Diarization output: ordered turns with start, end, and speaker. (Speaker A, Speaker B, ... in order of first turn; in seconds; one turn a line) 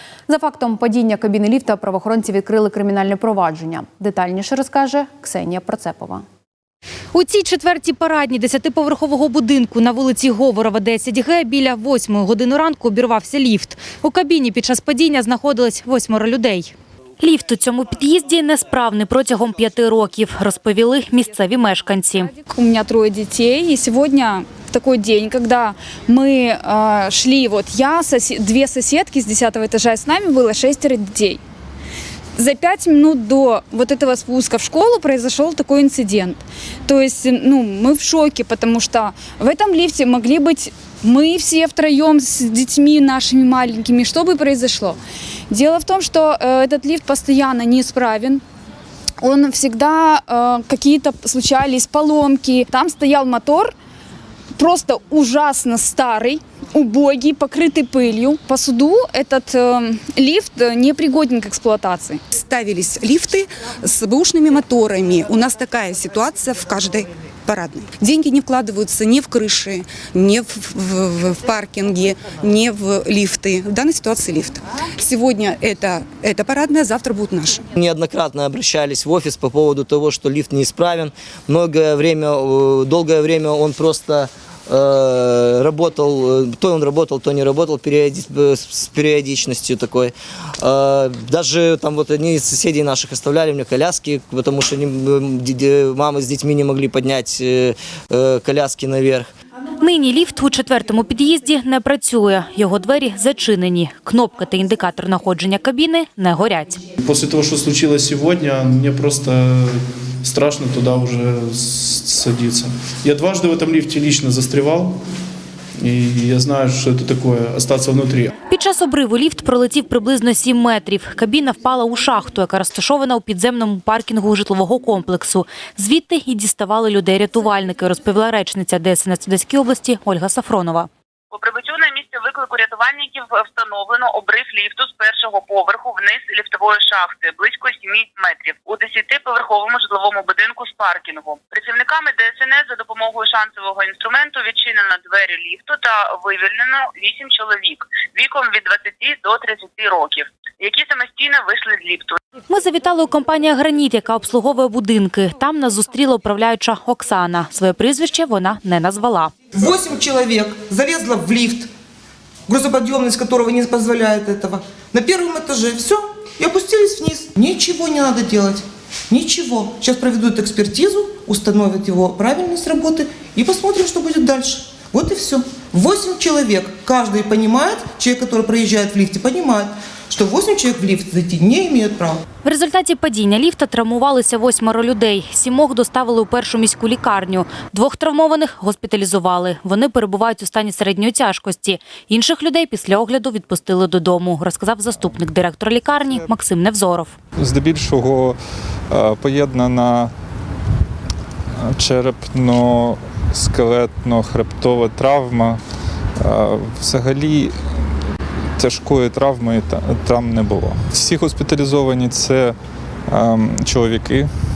Speaker A: 0.3-6.2
Speaker B: 7.1-22.3
Speaker C: 22.5-31.4
Speaker C: 32.4-45.0
Speaker C: 45.5-48.4
Speaker C: 49.2-53.7
Speaker C: 54.6-62.2
Speaker D: 62.3-77.7
Speaker E: 77.7-99.3
Speaker B: 99.8-106.8
Speaker F: 107.0-115.0
Speaker F: 115.8-118.3
Speaker B: 118.5-130.9
Speaker G: 131.3-152.2
Speaker B: 152.5-159.3
Speaker H: 159.6-161.7
Speaker H: 162.5-182.2
Speaker B: 182.4-197.1
Speaker I: 197.4-198.4
Speaker I: 198.9-200.1
Speaker I: 201.6-205.6
Speaker I: 206.2-207.6
Speaker I: 208.6-212.6
Speaker I: 213.1-214.3